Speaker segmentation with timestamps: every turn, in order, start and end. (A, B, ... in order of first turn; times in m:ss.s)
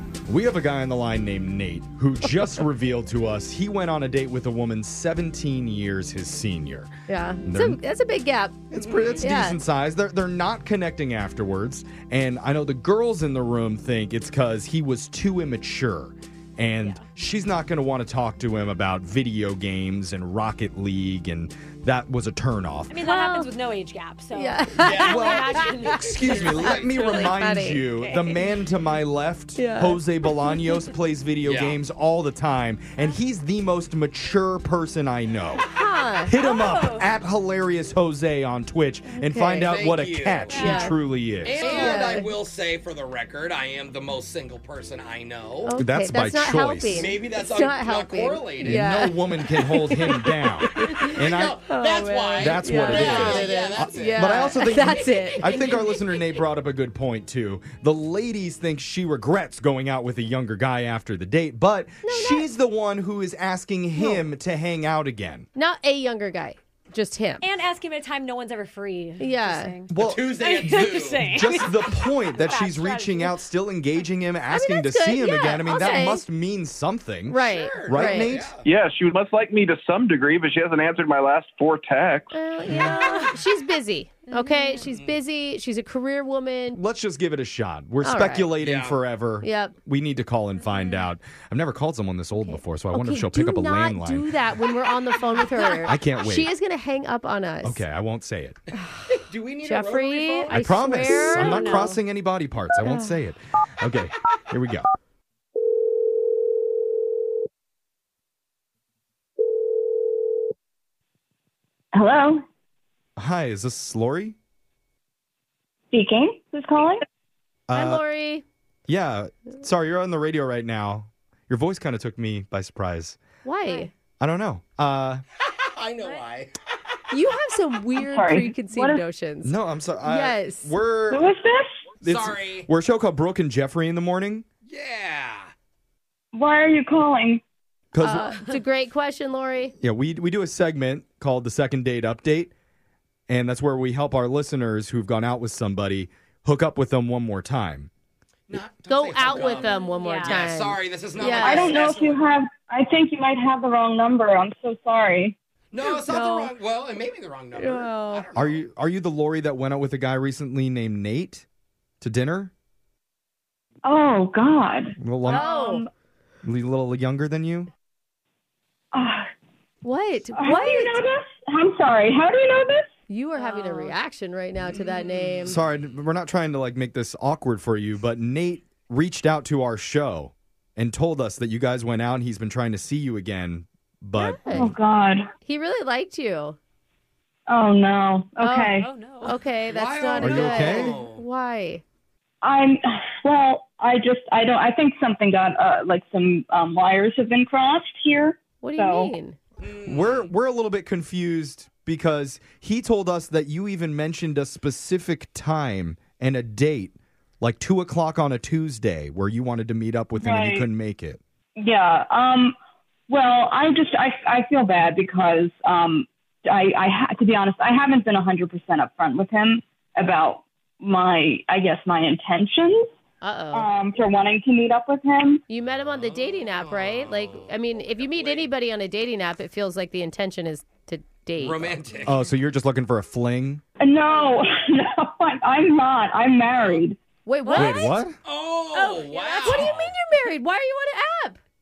0:00.3-0:06.9 A
0:07.1-0:08.6 B
0:07.4-0:07.8 A
0:08.7-0:22.9 A
0:08.8-0:09.2 C
0:09.2-0:09.6 B
0:22.9-0:27.4 D
0:23.0-0:23.5 B
0:24.3-0:26.0 B
0:24.8-0:26.9 C
0:25.0-0:35.6 A
0:26.9-0:28.0 B
0:28.0-0:28.4 D
0:29.6-0:30.5 B
0:31.4-0:31.8 C
0:35.7-0:36.3 B
0:36.3-0:41.8 A
0:36.4-0:37.1 D
0:39.1-0:39.7 B
0:39.6-0:40.7 C
0:40.5-0:41.0 B
0:40.6-0:40.9 D
0:41.4-0:45.7 C
0:41.6-0:42.1 D
0:41.6-0:42.3 B
0:45.6-0:51.1 B
0:45.8-0:47.1 A
0:46.9-0:49.0 C
0:48.6-0:51.6 A
0:51.1-0:55.8 C
0:51.6-0:55.8 B
0:52.4-1:05.5 A
1:02.0-1:02.5 B
1:04.0-1:04.2 B
1:05.6-1:07.4 B
1:07.4-1:13.4 D
1:09.2-1:09.8 B
1:09.9-1:18.5 A
1:10.0-1:11.3 C
1:14.5-1:16.2 B
1:17.3-1:18.3 B
1:17.4-1:18.6 C
1:18.6-1:22.3 E
1:22.3-1:26.8 B
1:22.7-1:23.3 D
1:24.3-1:24.9 D
1:24.8-1:25.2 C
1:26.7-1:34.3 A
1:28.0-1:28.5 B
1:28.6-1:29.0 C
1:29.4-1:29.7 B
1:30.7-1:31.0 D
1:32.4-1:37.8 B
1:35.8-1:36.5 A
1:37.6-1:38.6 A
1:39.2-1:41.1 C
1:39.6-1:42.0 B
1:40.5-1:44.9 A
1:41.2-1:42.0 D
1:42.8-1:43.1 B
1:51.9-1:52.4 F
1:53.2-1:54.4 A
1:55.9-1:57.0 F
1:57.7-1:58.0 A
1:57.7-1:58.4 B
1:58.9-2:03.2 A
2:03.4-2:03.9 B
2:03.6-2:03.9 D
2:04.2-2:05.2 A
2:05.7-2:06.5 C
2:07.1-2:09.5 B
2:08.0-2:09.0 F
2:09.4-2:11.3 A
2:10.0-2:10.7 B
2:11.1-2:11.7 F
2:12.0-2:14.4 A
2:12.0-2:12.7 C
2:14.7-2:15.5 C
2:16.3-2:17.4 F
2:17.9-2:18.4 A
2:18.0-2:19.8 B
2:19.8-2:22.5 A
2:23.3-2:27.9 A
2:28.5-2:32.2 C
2:28.9-2:31.8 B
2:29.2-2:30.5 D
2:31.4-2:35.4 F
2:35.7-2:38.6 C
2:35.8-2:36.5 B
2:37.6-2:38.2 B
2:38.4-2:41.4 A
2:42.0-2:42.5 A
2:43.8-2:45.9 F
2:45.0-2:45.5 A
2:45.3-2:45.8 B
2:46.4-2:47.7 A
2:48.9-2:49.3 F
2:49.8-2:51.0 B
2:50.4-2:52.9 F
2:53.1-2:55.6 B
2:53.4-2:54.0 D
2:54.8-2:55.5 C
2:55.4-3:04.4 A
3:04.2-3:04.7 B
3:04.5-3:05.3 F
3:05.4-3:06.6 B
3:07.5-3:08.9 F
3:08.4-3:11.8 B
3:08.8-3:09.4 D
3:09.7-3:11.2 C
3:10.2-3:11.0 A
3:12.4-3:19.1 F
3:18.6-3:19.4 B
3:19.6-3:20.3 C
3:19.8-3:31.2 A
3:30.2-3:30.7 F
3:31.6-3:32.6 F
3:33.1-3:42.9 F
3:43.2-3:43.7 B
3:43.5-3:45.4 F
3:45.5-3:51.8 B
3:45.8-3:48.5 C
3:51.4-3:52.2 C
3:52.1-3:53.6 A
3:53.8-3:57.0 F
3:57.3-3:58.0 B
3:57.4-3:57.9 D
3:57.5-3:58.1 A
3:58.2-3:59.9 C
3:58.8-3:59.7 D
3:58.8-4:01.4 B